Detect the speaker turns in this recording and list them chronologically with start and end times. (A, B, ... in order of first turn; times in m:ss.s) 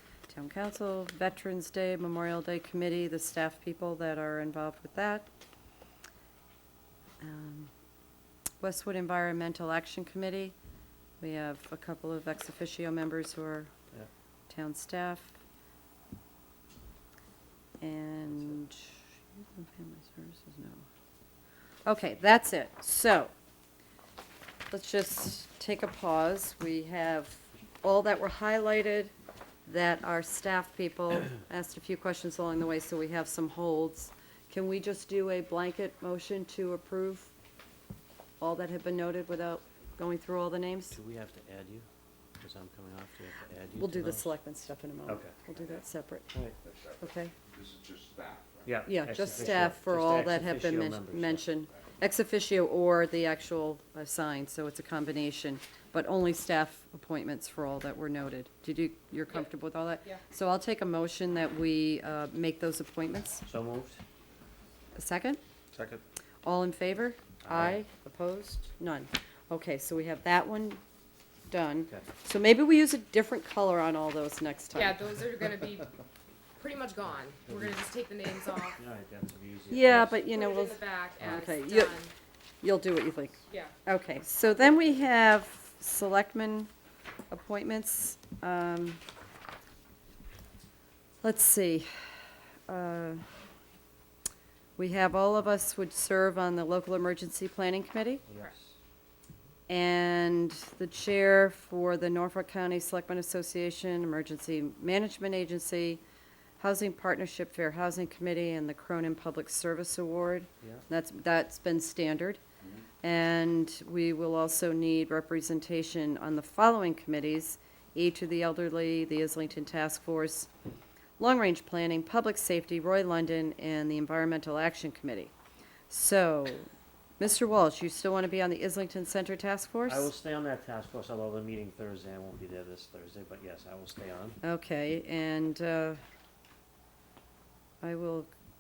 0:00.3-0:05.3 A
0:07.2-0:07.7 A
0:08.6-0:10.5 A
0:11.2-0:13.7 A
0:14.5-0:15.4 A
0:17.8-0:20.8 A
0:21.9-0:23.3 A
0:24.7-0:29.1 A
0:29.7-0:37.3 A
0:38.4-0:41.0 A
0:40.9-0:41.9 B
0:42.4-0:44.4 B
0:43.8-0:46.3 A
0:45.1-0:45.4 B
0:46.3-0:46.6 B
0:46.6-0:49.7 C
0:47.0-0:47.3 A
0:48.6-0:51.5 B
0:48.9-1:03.4 A
1:03.4-1:04.0 B
1:05.0-1:05.4 A
1:05.7-1:06.0 C
1:06.4-1:10.8 A
1:07.4-1:07.8 B
1:11.5-1:15.0 A
1:14.7-1:15.9 D
1:16.6-1:18.8 D
1:17.5-1:17.8 B
1:18.8-1:20.3 B
1:19.7-1:22.0 A
1:20.2-1:22.1 D
1:22.6-1:26.7 A
1:27.3-1:29.0 A
1:31.2-1:31.9 A
1:32.7-1:33.2 A
1:34.8-1:38.2 A
1:38.3-1:38.8 B
1:39.7-1:46.0 A
1:46.6-1:52.4 A
1:53.0-2:00.5 A
2:01.2-2:05.3 A
2:05.9-2:10.1 A
2:09.9-2:14.4 B
2:14.4-2:16.0 A
2:17.8-2:18.3 A